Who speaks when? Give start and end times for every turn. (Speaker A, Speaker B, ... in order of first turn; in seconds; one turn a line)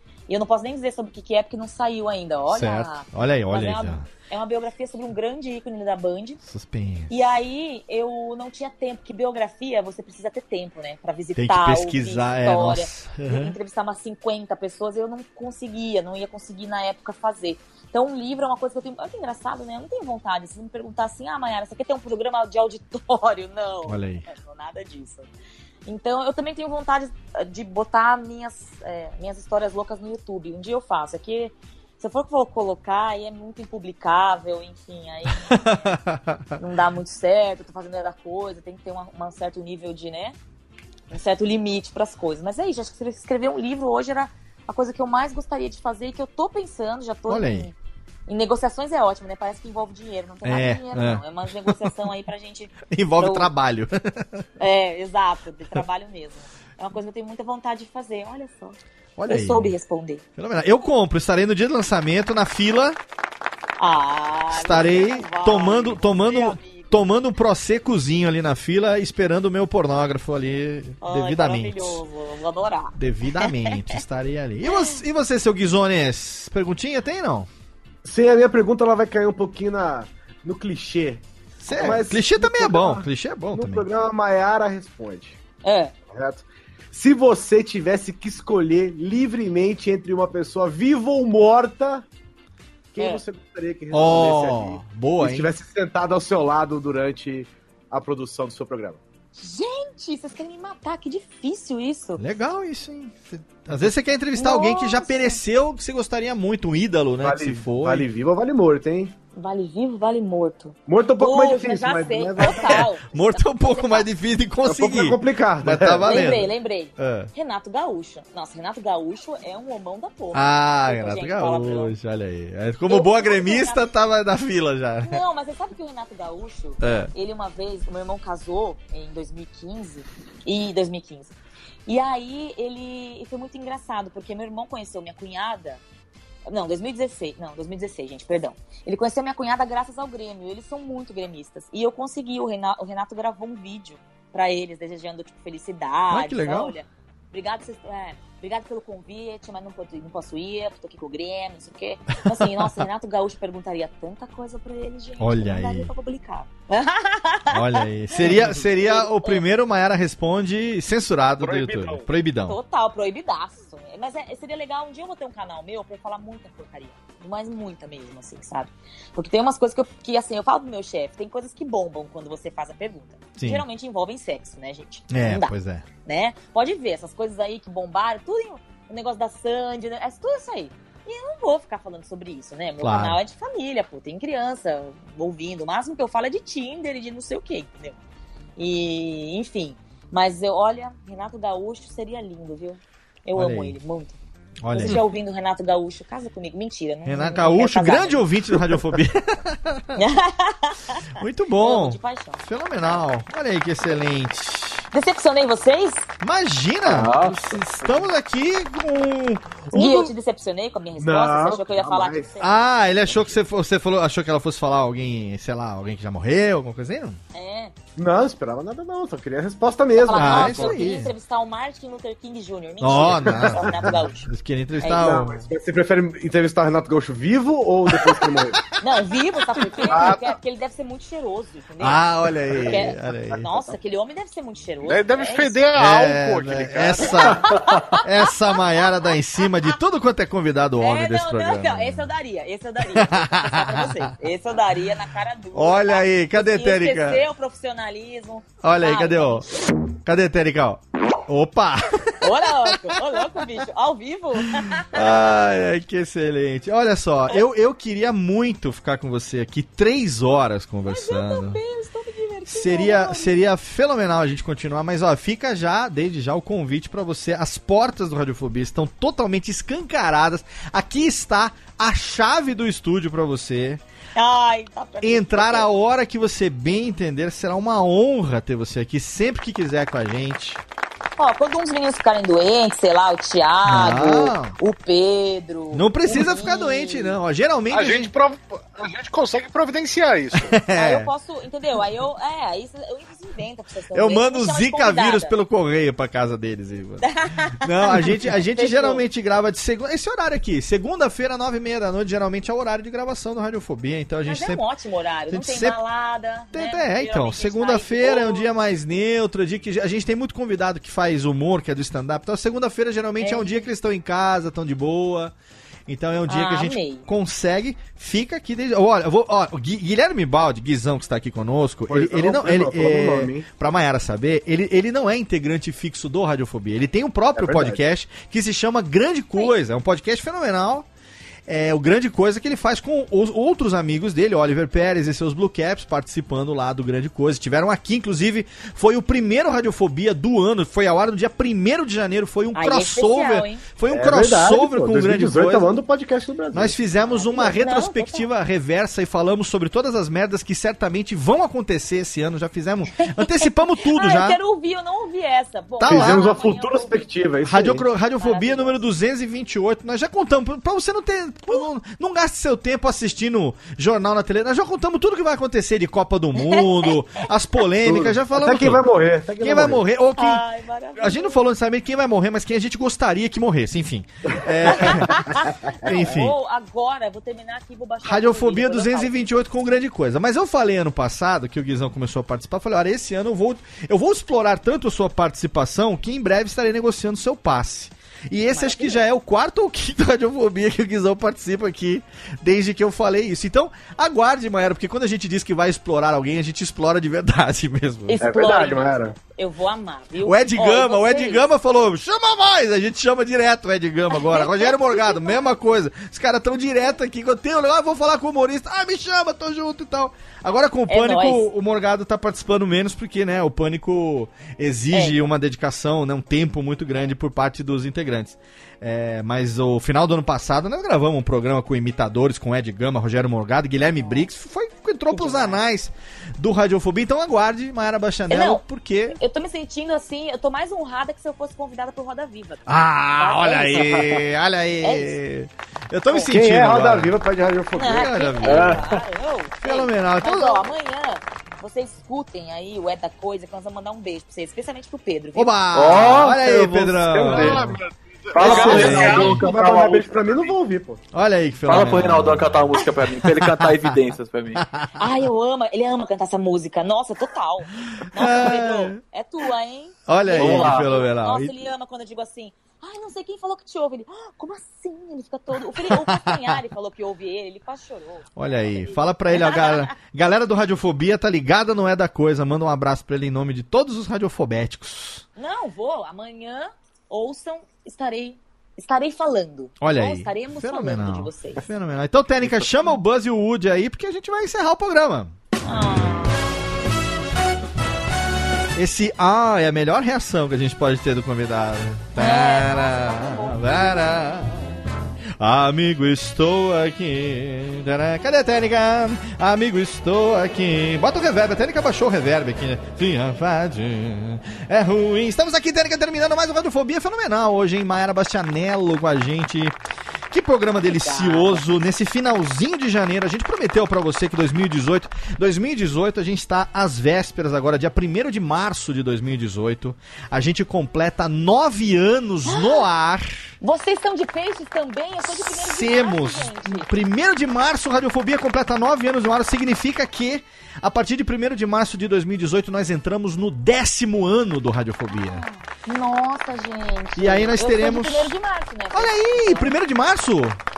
Speaker A: 0.3-6.4
Speaker B: 2.5-4.0
Speaker B: 6.5-7.3
Speaker A: 7.1-25.3
Speaker B: 11.3-13.6
Speaker B: 23.8-24.2
Speaker A: 25.9-36.0
Speaker B: 35.3-36.5
Speaker A: 36.5-40.4
Speaker A: 41.1-47.7
Speaker B: 47.3-47.7
Speaker A: 48.3-53.5
Speaker B: 50.4-51.9
Speaker B: 52.9-54.5
Speaker A: 54.6-58.8
Speaker B: 59.2-59.7
Speaker A: 59.3-60.2
Speaker B: 60.4-63.0
Speaker A: 63.8-67.0
Speaker B: 64.5-72.0
Speaker A: 71.0-74.0
Speaker B: 72.9-77.5
Speaker A: 74.7-75.0
Speaker C: 78.0-85.4
Speaker B: 81.6-83.9
Speaker A: 85.6-85.9
Speaker C: 86.1-92.0
Speaker C: 92.9-99.0
Speaker A: 93.0-93.2
Speaker B: 93.9-95.5
Speaker A: 99.4-102.2
Speaker B: 102.2-108.1
Speaker A: 104.3-105.4
Speaker C: 107.2-109.1
Speaker A: 109.3-114.0
Speaker C: 110.9-112.8
Speaker B: 112.4-117.3
Speaker C: 114.7-116.3
Speaker A: 116.0-121.9
Speaker B: 120.3-125.2
Speaker A: 122.9-123.9
Speaker A: 125.0-131.3
Speaker B: 126.8-127.1
Speaker A: 131.9-135.8
Speaker A: 136.4-159.4
Speaker B: 146.1-146.8
Speaker B: 152.3-152.8
Speaker B: 155.2-155.9
Speaker B: 157.5-162.6
Speaker D: 161.4-162.0
Speaker A: 162.5-188.0
Speaker B: 173.4-173.6
Speaker B: 175.1-175.8
Speaker B: 182.8-183.2
Speaker A: 188.6-194.2
Speaker B: 193.3-193.8
Speaker B: 194.6-195.0
Speaker A: 194.7-198.3
Speaker B: 197.0-200.0
Speaker A: 199.9-201.1
Speaker B: 201.2-204.8
Speaker A: 201.6-203.0
Speaker A: 204.9-206.1
Speaker B: 206.2-210.1
Speaker E: 206.8-207.6
Speaker A: 209.7-213.3
Speaker C: 211.0-212.3
Speaker B: 212.4-217.2
Speaker A: 217.3-217.7
Speaker C: 218.0-220.8
Speaker A: 219.9-224.3
Speaker B: 220.1-221.1
Speaker B: 222.8-225.4
Speaker A: 224.8-225.2
Speaker C: 224.8-228.6
Speaker A: 228.8-235.6
Speaker B: 229.7-230.2
Speaker B: 231.8-233.5
Speaker D: 234.8-237.8
Speaker B: 235.8-237.5
Speaker A: 237.0-238.5
Speaker B: 238.0-242.1
Speaker A: 240.8-249.6
Speaker B: 242.9-244.0
Speaker B: 245.5-247.2
Speaker B: 248.6-249.4
Speaker B: 250.0-252.8
Speaker A: 252.2-255.0
Speaker B: 254.9-261.6
Speaker A: 260.9-263.4
Speaker B: 262.5-273.8
Speaker A: 274.1-275.7
Speaker B: 275.0-280.6
Speaker A: 281.2-287.1
Speaker B: 283.6-284.6
Speaker B: 285.7-288.1
Speaker D: 287.7-290.6
Speaker B: 290.5-291.1
Speaker A: 290.7-295.4
Speaker B: 293.9-297.1
Speaker A: 297.0-299.0
Speaker B: 297.6-304.6
Speaker A: 304.2-308.5
Speaker B: 305.3-305.8
Speaker B: 306.5-315.3
Speaker A: 313.2-313.7
Speaker B: 315.9-330.9
Speaker A: 316.3-317.1
Speaker C: 321.9-323.4
Speaker C: 327.3-327.8
Speaker B: 331.5-345.7
Speaker A: 342.5-343.6
Speaker C: 343.9-346.7
Speaker B: 346.5-354.4
Speaker A: 347.0-348.2
Speaker A: 352.9-357.1
Speaker B: 355.8-356.3
Speaker C: 355.9-357.9
Speaker B: 357.4-368.8
Speaker A: 358.2-358.8
Speaker A: 366.4-366.9
Speaker C: 367.8-369.8
Speaker B: 369.4-370.4
Speaker A: 370.2-371.4
Speaker B: 370.9-376.3
Speaker A: 374.7-379.2
Speaker B: 378.0-398.2
Speaker A: 388.5-389.0
Speaker A: 398.1-401.4
Speaker C: 398.2-399.1
Speaker B: 400.2-429.2
Speaker A: 404.1-405.4
Speaker A: 410.9-411.5
Speaker A: 414.9-415.2
Speaker A: 425.1-425.6
Speaker A: 428.3-432.6
Speaker B: 432.6-437.1
Speaker A: 433.1-434.2
Speaker A: 434.8-435.1
Speaker C: 436.2-438.7
Speaker A: 437.7-445.5
Speaker B: 437.8-438.9
Speaker B: 439.6-440.7
Speaker B: 445.3-447.8
Speaker E: 445.7-447.5
Speaker C: 447.2-447.7
Speaker D: 447.2-450.6
Speaker E: 448.3-449.9
Speaker B: 448.4-449.4
Speaker C: 448.4-451.0
Speaker B: 451.1-452.6
Speaker E: 451.6-454.6
Speaker B: 453.4-453.7
Speaker B: 454.5-454.9
Speaker A: 455.0-469.9
Speaker B: 458.1-459.0
Speaker B: 460.1-461.5
Speaker E: 460.4-460.9
Speaker B: 465.8-466.5
Speaker B: 468.4-475.2
Speaker A: 475.4-481.6
Speaker B: 479.8-485.3
Speaker A: 485.6-486.4
Speaker B: 488.7-494.7
Speaker A: 492.1-494.7
Speaker B: 495.4-509.8
Speaker B: 510.3-523.5
Speaker A: 510.8-511.8
Speaker A: 522.5-522.9
Speaker A: 523.6-526.9
Speaker B: 525.2-535.5
Speaker A: 535.2-539.7
Speaker B: 537.2-538.3
Speaker B: 538.9-540.6